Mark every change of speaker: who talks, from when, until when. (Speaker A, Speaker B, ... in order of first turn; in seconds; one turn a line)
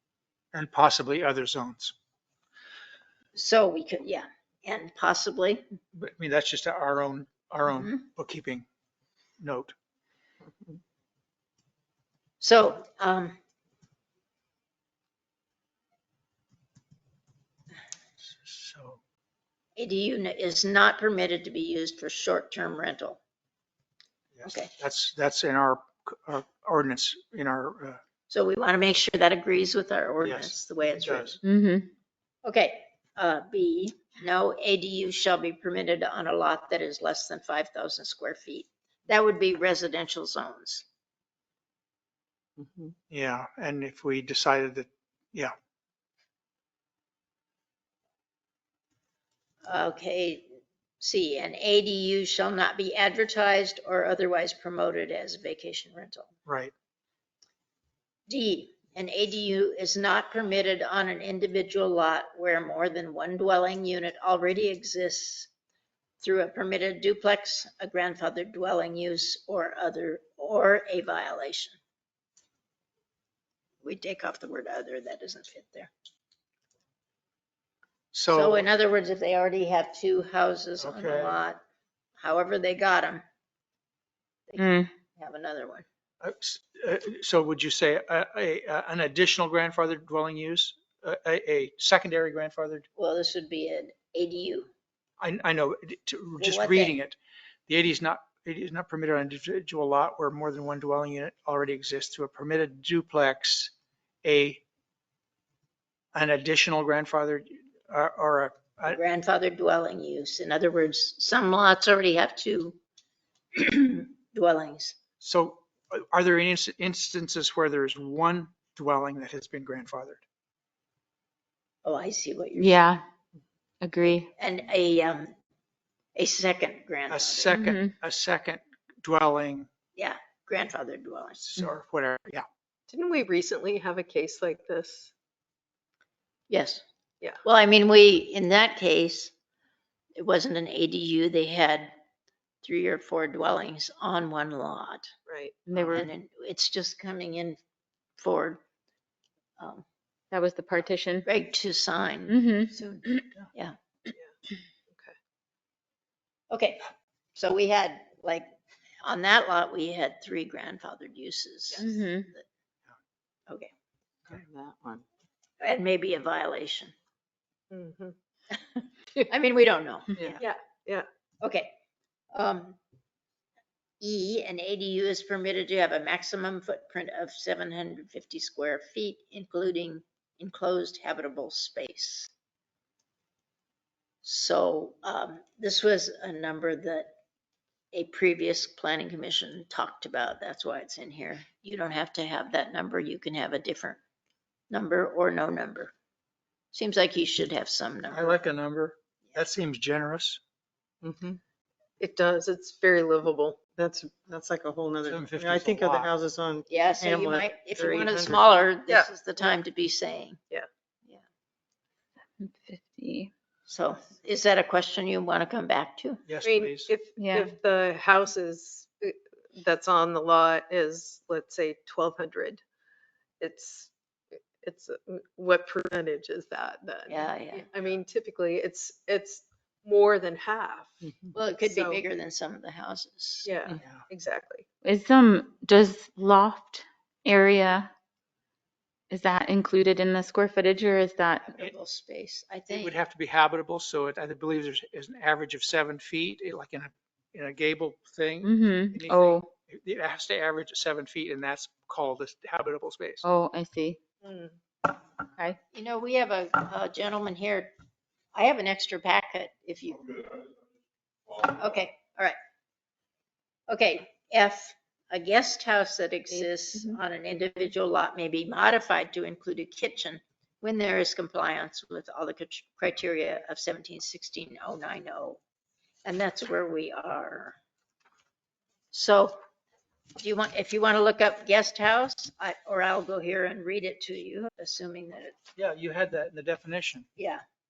Speaker A: 0.5-1.9
Speaker B: 3.4-5.6
Speaker A: 6.0-8.6
Speaker B: 7.7-8.0
Speaker A: 9.4-9.7
Speaker B: 12.4-13.4
Speaker A: 18.2-19.0
Speaker B: 19.8-23.2
Speaker A: 24.4-28.0
Speaker B: 24.4-24.7
Speaker B: 28.3-31.4
Speaker A: 30.2-31.4
Speaker C: 31.4-31.9
Speaker B: 32.4-40.8
Speaker D: 42.6-42.9
Speaker A: 43.1-45.5
Speaker B: 49.6-56.3
Speaker A: 56.5-56.7
Speaker B: 58.3-65.5
Speaker B: 66.2-71.8
Speaker B: 73.8-75.9
Speaker A: 78.1-78.7
Speaker B: 78.3-81.6
Speaker A: 80.8-81.4
Speaker B: 82.2-83.2
Speaker B: 84.5-85.8
Speaker C: 84.6-84.9
Speaker A: 86.2-92.9
Speaker B: 93.0-94.7
Speaker A: 95.2-103.7
Speaker B: 96.4-97.0
Speaker A: 104.2-104.6
Speaker A: 106.1-109.0
Speaker B: 108.9-112.8
Speaker B: 113.5-115.0
Speaker A: 115.2-120.2
Speaker B: 121.8-122.8
Speaker C: 122.6-123.0
Speaker C: 123.8-124.3
Speaker B: 124.3-125.3
Speaker B: 126.2-127.5
Speaker A: 127.1-129.7
Speaker C: 127.5-127.9
Speaker B: 129.9-131.5
Speaker A: 131.4-132.4
Speaker E: 132.9-135.1
Speaker B: 136.5-136.8
Speaker B: 137.4-139.3
Speaker B: 140.2-141.9
Speaker B: 142.6-145.1
Speaker E: 145.3-145.6
Speaker C: 145.7-146.1
Speaker B: 145.7-147.6
Speaker B: 148.2-148.6
Speaker B: 149.6-149.8
Speaker C: 150.3-151.3
Speaker B: 151.2-153.8
Speaker C: 152.3-153.2
Speaker E: 154.9-155.1
Speaker B: 156.5-156.8
Speaker B: 157.3-158.5
Speaker B: 159.0-162.4
Speaker C: 161.8-162.3
Speaker D: 164.3-165.0
Speaker B: 165.6-166.9
Speaker E: 167.7-168.2
Speaker B: 169.2-170.4
Speaker E: 170.4-171.1
Speaker B: 171.4-171.8
Speaker B: 172.3-172.8
Speaker B: 174.0-182.3
Speaker B: 184.2-187.1
Speaker B: 187.9-194.0
Speaker B: 194.7-195.9
Speaker B: 196.7-198.3
Speaker A: 198.1-200.4
Speaker E: 202.0-203.8
Speaker D: 203.8-208.5
Speaker A: 205.1-206.1
Speaker B: 206.7-210.4
Speaker E: 208.9-209.5
Speaker C: 212.4-213.3
Speaker B: 213.7-216.2
Speaker A: 216.2-216.9
Speaker E: 216.4-222.6
Speaker C: 217.2-217.5
Speaker E: 223.4-232.0
Speaker B: 227.1-227.7
Speaker B: 231.3-233.5
Speaker E: 233.4-234.7
Speaker A: 233.8-234.0
Speaker C: 234.8-237.9
Speaker C: 239.1-241.5
Speaker B: 241.5-242.9
Speaker A: 242.7-253.3
Speaker C: 248.4-249.5
Speaker C: 253.2-254.0
Speaker E: 254.2-254.6
Speaker B: 255.7-257.7
Speaker B: 258.4-260.2
Speaker B: 261.3-262.4
Speaker B: 263.7-275.4
Speaker C: 266.3-267.0
Speaker B: 276.1-277.6
Speaker B: 278.9-279.4
Speaker B: 280.2-285.4
Speaker A: 285.6-287.1
Speaker B: 287.2-287.4